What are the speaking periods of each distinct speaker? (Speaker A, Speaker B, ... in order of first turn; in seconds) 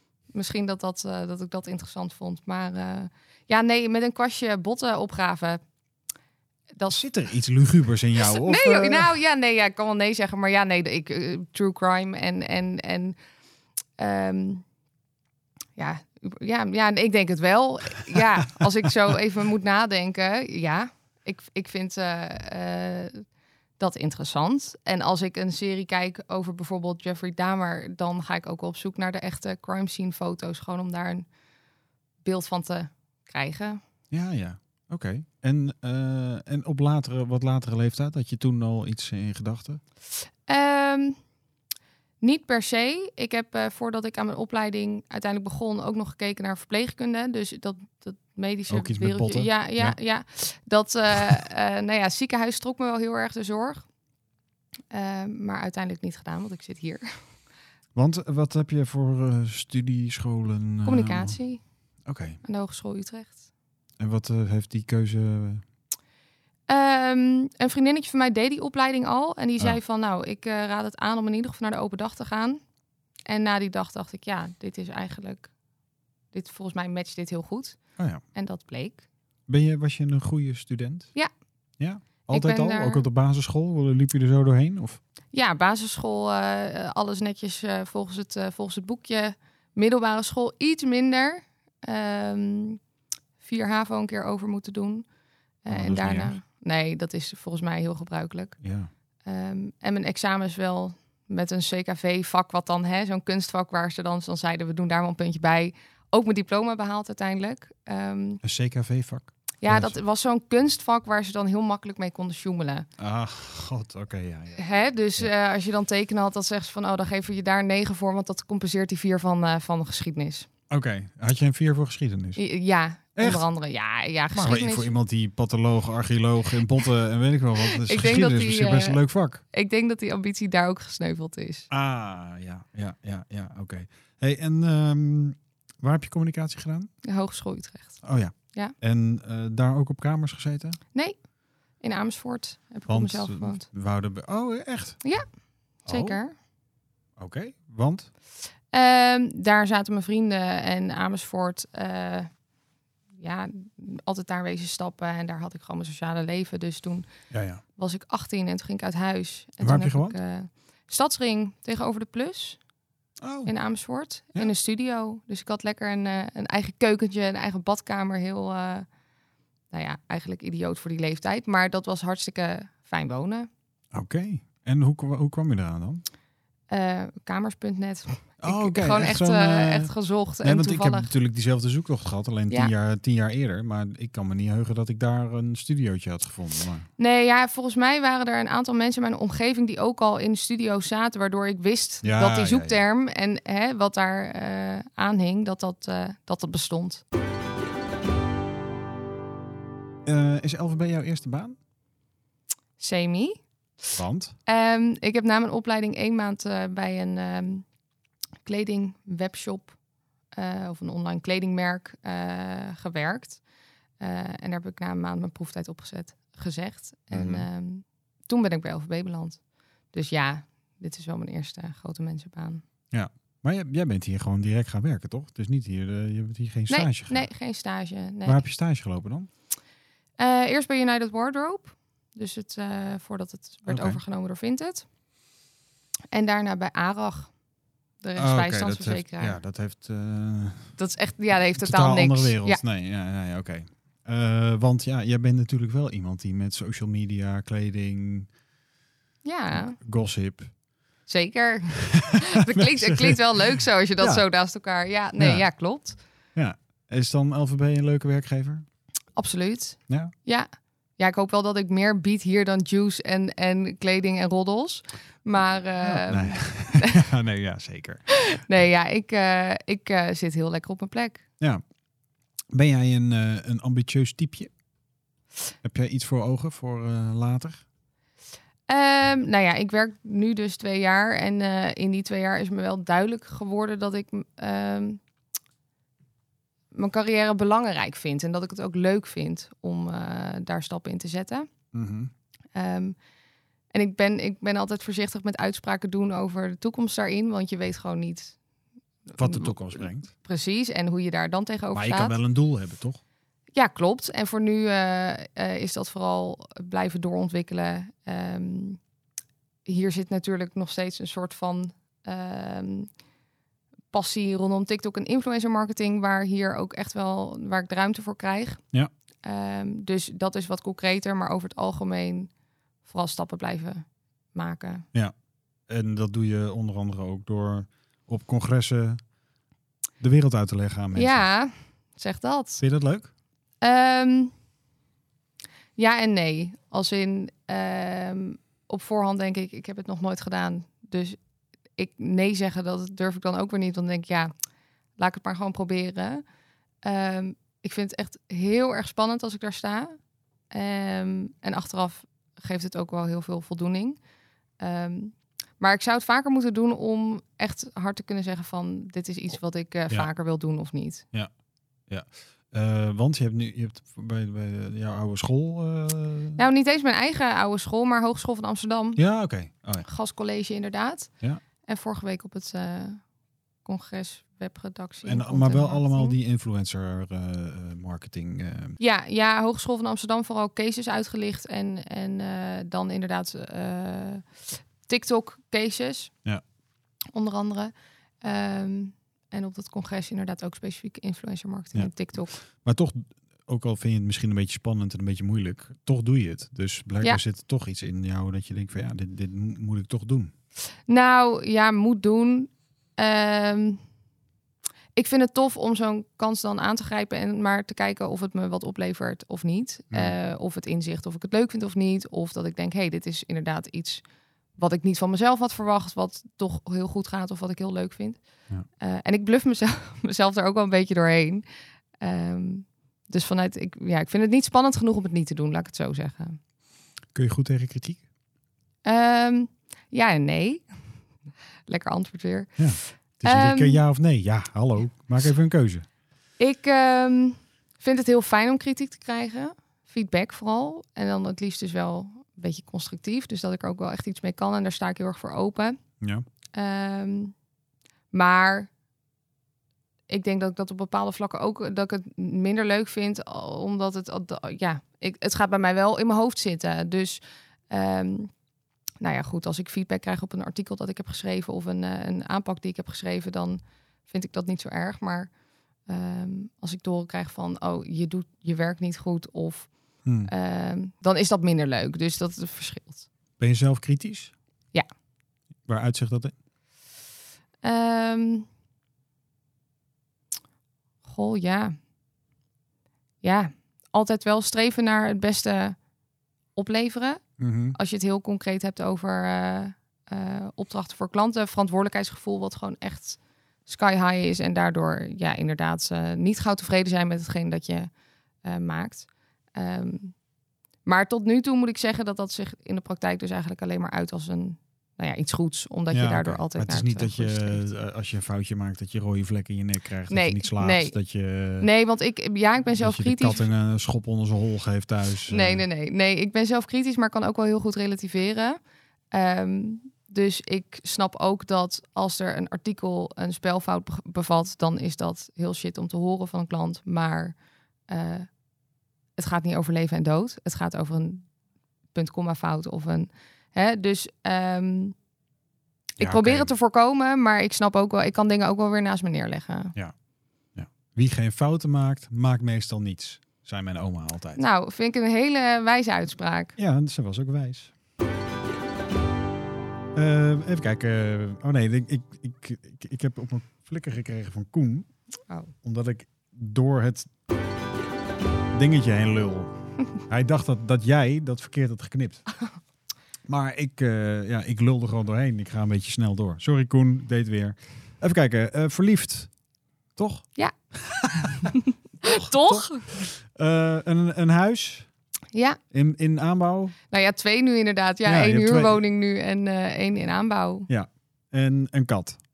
Speaker A: 0.3-5.6, 8.2-13.2, 14.0-14.7, 15.8-23.3, 23.8-31.3, 32.2-33.8, 40.5-41.2, 42.2-53.9, 54.9-57.1, 60.9-61.6, 62.4-63.4, 66.7-72.6, 73.3-75.5, 76.3-77.8, 78.3-79.0, 82.3-83.0, 85.3-92.8, 93.4-95.1, 95.6-98.6, 99.2-108.4, 109.6-112.9, 114.5-120.5, 122.4-124.9, 127.7-129.0, 129.5-131.7, 137.0-138.8, 141.8-143.7, 145.9-146.3, 148.7-152.3, 153.2-157.1, 157.8-162.6, 163.5-168.9, 169.7-173.5, 176.7-181.1, 187.0-197.0, 202.8-203.4, 204.5-207.7, 208.4-209.8, 210.3-213.4, 214.0-219.4, 219.9-222.6, 226.7-228.4, 230.2-234.9, 236.1-237.3, 238.0-239.4, 240.8-242.6, 249.2-249.8, 251.1-256.0, 259.1-267.0, 268.1-271.2, 278.7-285.0, 286.7-291.5, 292.6-293.0, 293.7-298.4, 299.1-302.2, 303.6-308.8, 309.6-312.9, 313.9-318.6, 319.2-322.3, 322.8-324.9, 330.9-332.6, 333.6-334.3, 335.8-341.2, 341.8-344.3, 345.0-346.2, 346.8-350.0, 350.5-354.0, 354.6-361.1, 366.4-369.0, 369.9-371.1, 371.6-373.0, 373.6-376.2, 378.8-384.3, 384.9-386.1, 387.1-392.4, 400.9-403.8, 405.0-414.0, 414.6-418.2, 418.8-421.4, 422.0-426.4, 428.9-430.6, 431.7-433.8, 436.4-445.8, 446.5-447.4, 448.1-448.7, 450.1-458.3, 459.0-465.3, 465.9-469.7, 470.2-473.1, 477.6-478.5, 481.1-481.8, 483.2-485.8, 486.6-487.2, 487.8-497.9, 498.4-500.1, 500.9-507.6, 510.1-510.9, 511.6-513.5, 515.3-518.6, 519.1-527.4, 527.9-528.3, 529.2-531.3, 531.9-535.0, 536.0-539.8, 544.4-546.6, 571.1-573.0, 575.3-575.6, 576.9-580.7
Speaker B: 6.9-9.1, 34.1-39.8, 48.7-50.0, 58.0-61.4, 62.1-62.4, 64.0-65.6, 79.5-81.1, 81.8-85.0, 95.7-96.4, 98.6-98.9, 108.4-110.0, 113.0-114.6, 120.7-122.4, 123.2-123.4, 124.3-129.4, 131.7-136.9, 138.0-140.8, 142.9-145.0, 145.9-146.2, 147.2-148.1, 157.3-157.6, 159.6-160.2, 163.2-163.5, 173.9-176.0, 178.4-186.9, 192.0-192.8, 200.1-201.6, 203.9-204.3, 217.1-217.5, 222.9-227.3, 228.2-229.3, 233.7-234.0, 238.2-240.7, 241.6-248.3, 249.5-250.5, 251.9-254.2, 255.2-255.4, 256.4-258.6, 265.8-268.1, 272.5-274.5, 275.6-277.6, 291.7-292.1, 299.2-300.1, 301.7-303.0, 325.7-329.0, 330.0-331.2, 332.6-333.1, 361.9-366.4, 369.0-369.9, 375.0-378.8, 392.5-400.3, 427.1-428.0, 432.6-435.9, 470.1-470.3, 473.4-474.3, 475.7-476.4, 487.4-487.8, 505.9-511.7, 512.8-515.6, 536.0-536.5, 540.6-544.4, 546.6-547.7, 549.9-554.9, 555.6-557.1, 558.5-562.2, 563.3-569.3, 570.0-574.9, 575.7-576.8, 578.0-578.8, 580.7-582.2